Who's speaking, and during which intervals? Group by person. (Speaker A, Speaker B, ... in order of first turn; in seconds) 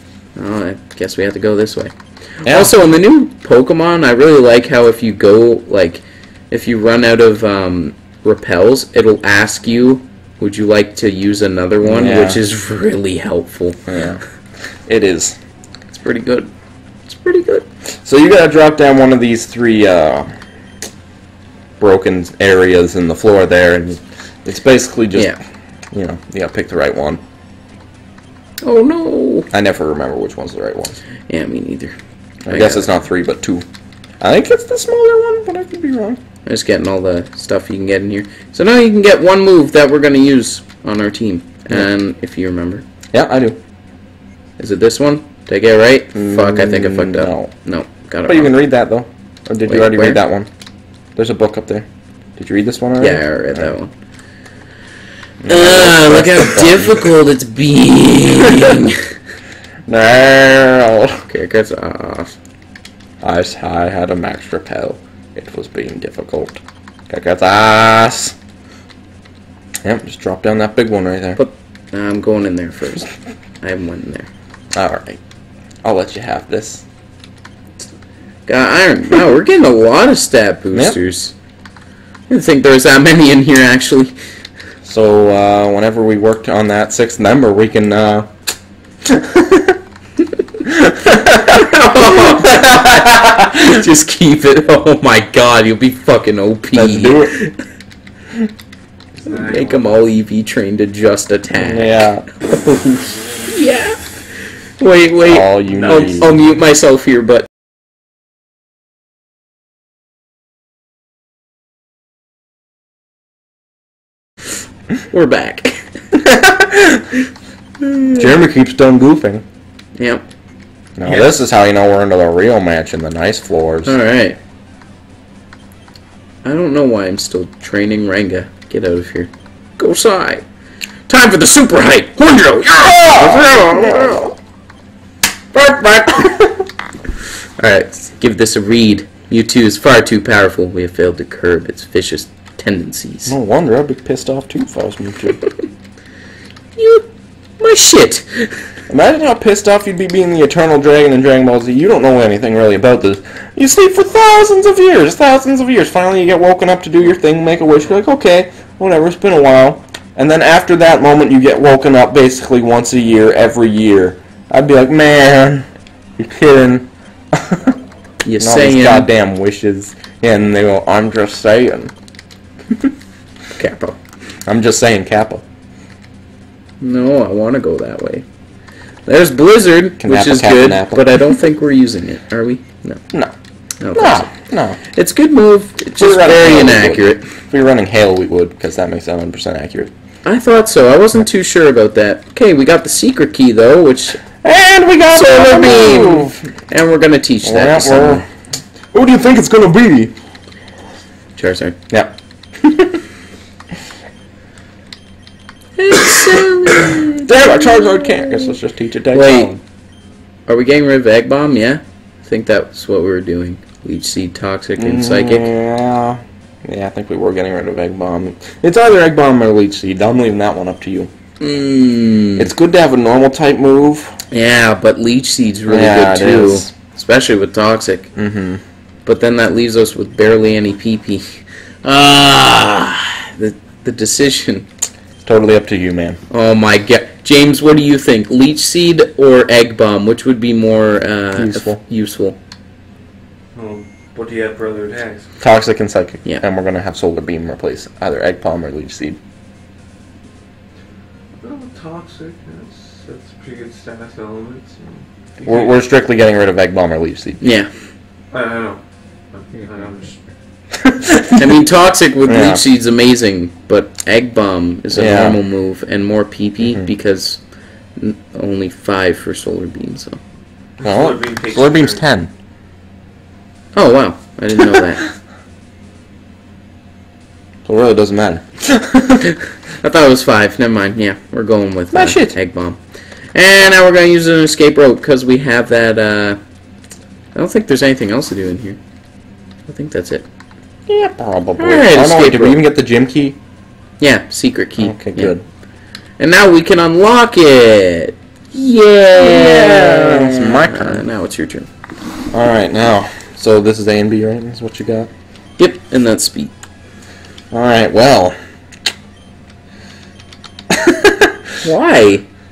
Speaker A: 0.3-14.0, 15.9-16.5, 17.1-17.6, 28.6-29.5, 31.3-31.9, 32.5-33.0, 36.5-42.8, 44.6-48.6, 49.6-50.2, 53.0-53.9, 55.4-59.1, 61.2-62.3, 71.4-73.1, 73.6-74.3, 78.5-81.3, 82.3-84.2, 91.2-97.5, 99.3-104.1, 104.8-107.5, 115.1-115.9, 117.8-118.3, 120.0-120.2, 123.8-124.4, 126.4-130.4, 131.1-134.3, 135.5-136.4, 137.6-143.3, 146.8-148.6, 168.2-169.1, 173.5-174.0, 176.8-178.2, 179.1-183.0, 183.8-184.3, 184.9-187.2, 190.2-194.2, 195.1-198.3, 201.3-201.8, 205.8-208.5, 209.1-209.6, 210.5-215.5, 221.4-222.5, 224.3-228.1, 229.0-234.7, 236.3-242.4, 257.4-257.7, 261.4-267.4, 267.9-270.2, 273.7-275.1, 279.8-282.8, 283.3-286.4, 287.3-288.8, 289.7-290.3, 291.6-292.6, 294.0-295.4, 296.2-301.7, 305.6-306.5, 311.6-312.2
Speaker B: 2.4-2.8, 11.8-12.4, 13.9-14.2, 14.9-15.4, 18.0-20.3, 21.8-25.3, 25.9-27.2, 29.5-31.0, 32.5-33.6, 34.2-36.2, 43.1-43.6, 46.1-47.5, 48.2-50.5, 51.1-53.7, 55.4-57.1, 59.9-61.2, 63.2-68.3, 69.8-71.4, 74.7-75.2, 75.8-76.8, 84.8-88.3, 89.0-89.8, 90.6-93.4, 96.7-97.3, 101.5-102.3, 105.2-106.4, 116.3-116.9, 118.1-119.4, 121.0-123.9, 132.7-134.3, 143.2-145.4, 148.9-165.7, 166.2-167.8, 168.4-171.9, 174.5-175.4, 180.0-181.2, 183.9-184.8, 186.0-189.9, 194.4-196.5, 197.4-198.2, 198.9-200.1, 201.9-203.0, 206.9-209.5, 214.8-221.1, 222.4-224.1, 225.7-226.7, 228.2-228.6, 235.2-236.2, 241.3-241.8, 245.4-249.2, 255.4-257.4, 260.7-261.6, 262.2-262.6, 264.9-265.4, 266.6-266.9, 270.8-272.3, 277.6-279.2, 281.9-282.3, 290.9-293.4, 294.8-295.4, 299.1-301.0, 302.3-305.1, 307.5-308.4, 310.7-311.4
Speaker C: 99.1-99.9, 105.7-106.1, 121.0-121.4, 243.5-245.2, 251.4-255.7, 258.3-258.8, 259.3-260.2, 270.8-272.0